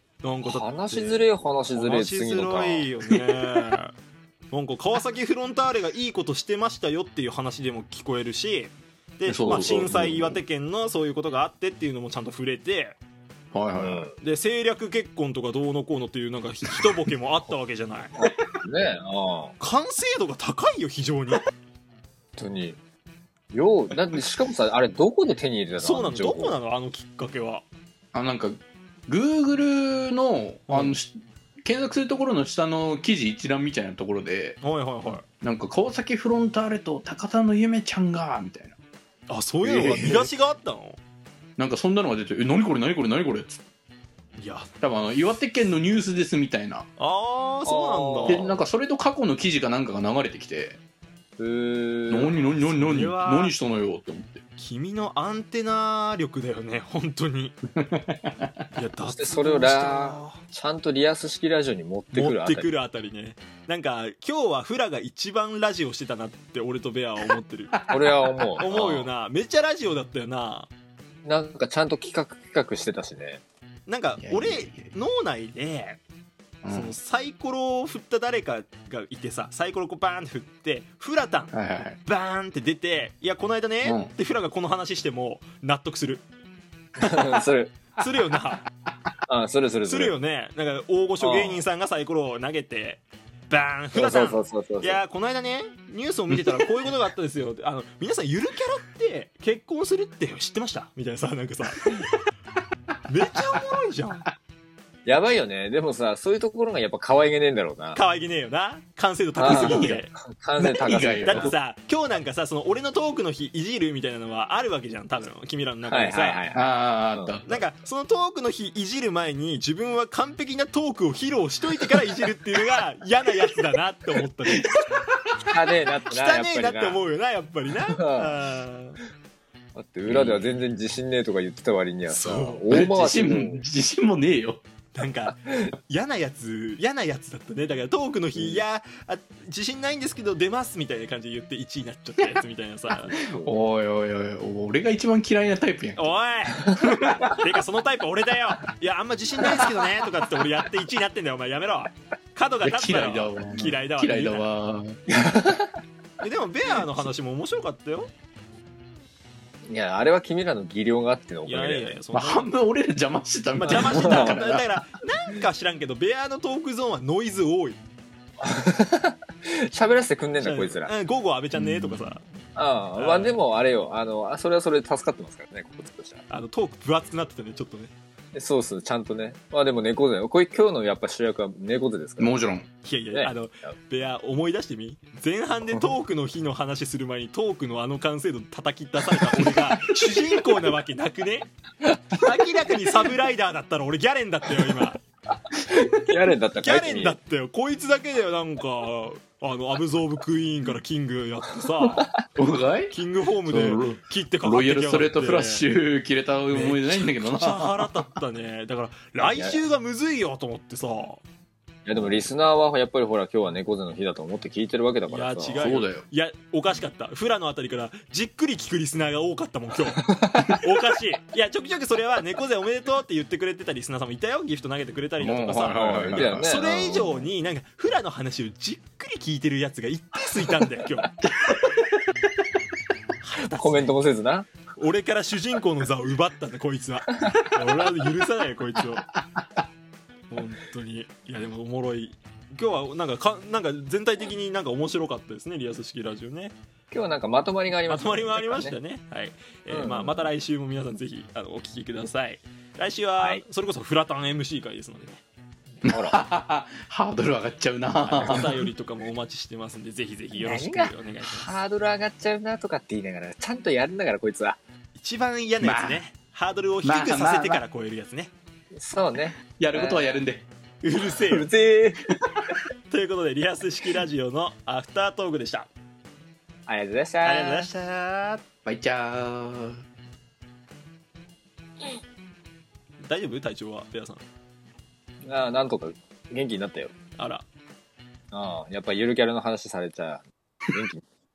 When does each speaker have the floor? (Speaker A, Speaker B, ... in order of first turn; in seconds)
Speaker A: 0.2-4.0, 4.5-13.0, 14.2-18.1, 19.6-21.4, 25.8-27.6, 30.7-30.9, 34.6-35.2, 39.3-41.0, 44.4-44.7, 47.0-48.5, 52.6-53.6, 54.6-57.6, 58.8-60.4, 62.1-67.8, 68.6-70.7, 73.9-76.0, 76.7-81.5, 82.1-86.2, 88.0-88.7, 89.8-102.0, 103.1-104.3, 107.9-110.1, 111.2-116.4, 117.5-124.8, 126.1-129.0, 132.1-132.8, 134.9-143.2, 145.9-154.5, 156.2-158.1, 161.4-162.5, 163.6-167.8, 170.4-172.2, 172.9-173.4, 176.3-177.9, 182.8-191.5, 192.1-195.0, 196.6-202.1, 202.9-205.6, 206.5-211.2, 215.1-231.1, 233.2-233.9, 234.8-239.1, 240.3-246.6, 247.9-255.2, 258.2-261.5, 264.9-268.3, 270.8-271.5, 272.9-275.7, 277.2-278.4, 283.0-284.2, 287.2-287.4
Speaker B: 0.4-2.9, 9.5-9.9, 13.8-14.1, 18.2-19.5, 22.4-22.8, 23.5-26.6, 39.7-40.3, 47.6-48.6, 51.4-52.4, 59.2-62.7, 67.9-69.1, 71.2-73.4, 87.0-87.8, 89.3-90.1, 91.2-91.6, 93.9-95.0, 105.1-108.0, 109.4-111.5, 115.9-117.4, 125.5-127.0, 127.9-128.4, 129.8-133.6, 138.3-138.6, 143.0-143.6, 155.1-155.7, 159.7-162.0, 163.7-164.4, 168.4-170.9, 172.6-176.2, 178.3-182.4, 183.1-183.7, 195.7-197.2, 201.8-202.2, 209.2-209.6, 211.9-215.6, 220.0-220.6, 225.7-227.3, 233.6-234.5, 246.9-248.8, 249.7-250.3, 255.9-256.2, 258.1-258.5, 260.3-264.6, 268.8-270.2, 271.0-272.2, 276.7-277.7, 285.2-286.9, 288.3-291.0
Speaker C: 3.1-3.6, 9.2-10.4, 13.5-14.1, 28.1-34.6, 35.3-38.8, 39.6-40.3, 41.6-43.6, 44.8-46.9, 48.2-50.8, 52.1-54.4, 57.8-58.5, 67.7-68.6, 74.2-74.9, 76.6-77.0, 81.5-82.0, 83.8-84.1, 109.5-110.0, 110.6-111.5, 116.5-117.6, 124.6-125.2, 130.1-130.4, 132.7-134.6, 143.3-146.1, 146.7-147.5, 152.6-155.0, 162.1-164.7, 171.5-172.1, 182.2-182.7, 202.4-208.1, 215.6-216.0, 225.2-226.5, 231.2-231.9, 239.3-239.6, 255.8-258.6, 265.6-266.0, 266.8-267.6, 269.5-270.5, 278.6-279.8